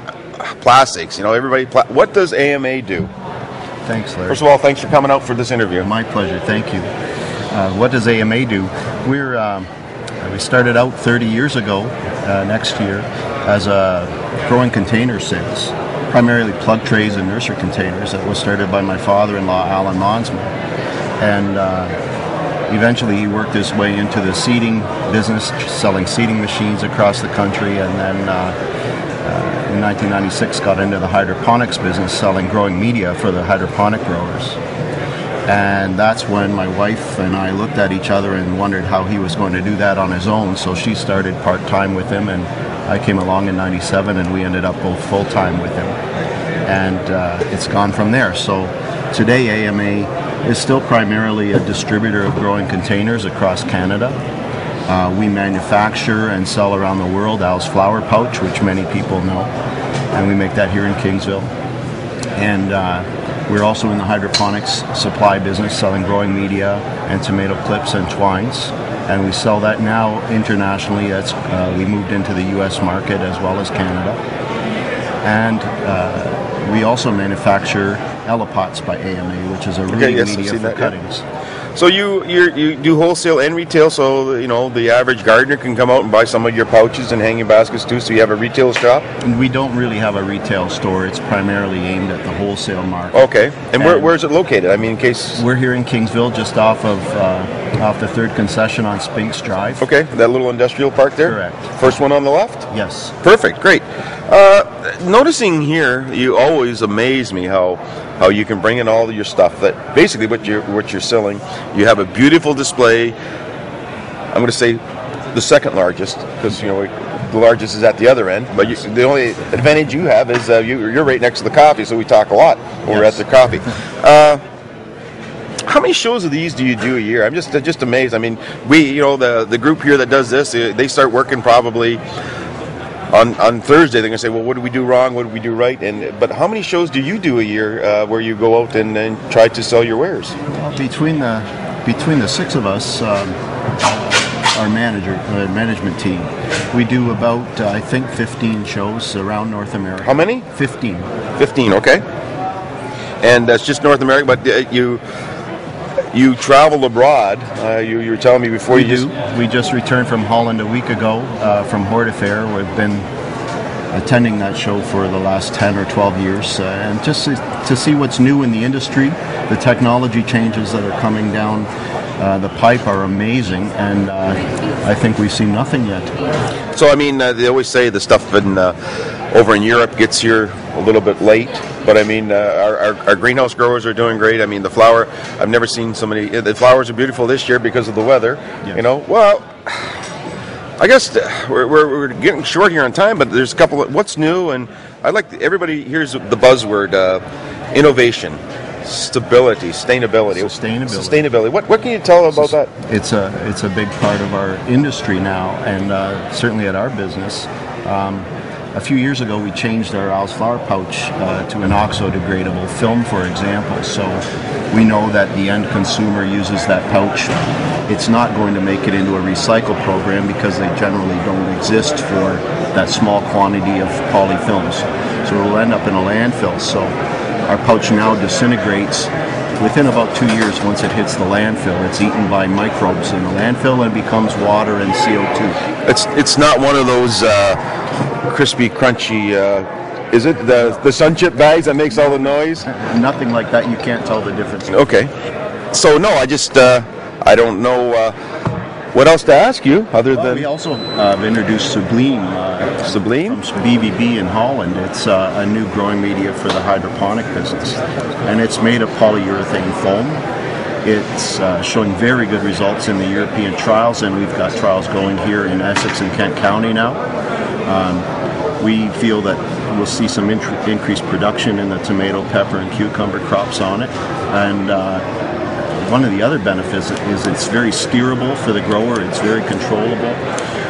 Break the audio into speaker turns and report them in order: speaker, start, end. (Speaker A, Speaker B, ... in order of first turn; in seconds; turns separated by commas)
Speaker A: 0.4-3.1, Speaker B: 3.8-4.4, Speaker A: 4.3-5.9, Speaker B: 5.8-6.9, Speaker B: 7.5-9.7, Speaker B: 10.2-20.5, Speaker B: 21.2-21.9, Speaker B: 22.7-28.5, Speaker B: 29.2-34.6, Speaker B: 35.5-46.0, Speaker B: 46.6-54.2, Speaker B: 54.9-59.5, Speaker B: 60.1-61.5, Speaker B: 62.4-74.2, Speaker B: 75.2-81.2, Speaker A: 79.9-80.9, Speaker A: 81.7-89.0, Speaker B: 89.2-94.1, Speaker A: 93.1-95.4, Speaker B: 95.3-99.8, Speaker A: 99.8-102.7, Speaker B: 101.2-101.8, Speaker B: 102.7-103.1, Speaker A: 103.2-113.1, Speaker A: 114.3-114.8, Speaker A: 115.3-124.4, Speaker B: 122.9-123.2, Speaker A: 125.7-132.0, Speaker A: 133.1-140.3, Speaker B: 140.5-151.1, Speaker A: 150.0-150.4, Speaker A: 151.4-152.0, Speaker A: 153.2-155.0, Speaker A: 156.1-159.1, Speaker B: 158.7-163.1, Speaker B: 163.9-176.2, Speaker A: 176.7-178.7, Speaker A: 179.3-189.9, Speaker A: 190.8-197.2, Speaker A: 197.7-202.7, Speaker B: 200.3-201.3, Speaker B: 202.3-217.3, Speaker B: 217.9-226.9, Speaker B: 227.5-235.6, Speaker A: 235.8-237.6, Speaker A: 238.2-242.7, Speaker B: 242.6-244.8, Speaker A: 244.7-245.1, Speaker A: 245.7-248.1, Speaker A: 248.9-250.5, Speaker B: 250.1-260.2, Speaker A: 252.8-253.4, Speaker B: 260.8-267.0, Speaker B: 267.6-268.1, Speaker B: 268.6-275.1, Speaker B: 275.7-280.2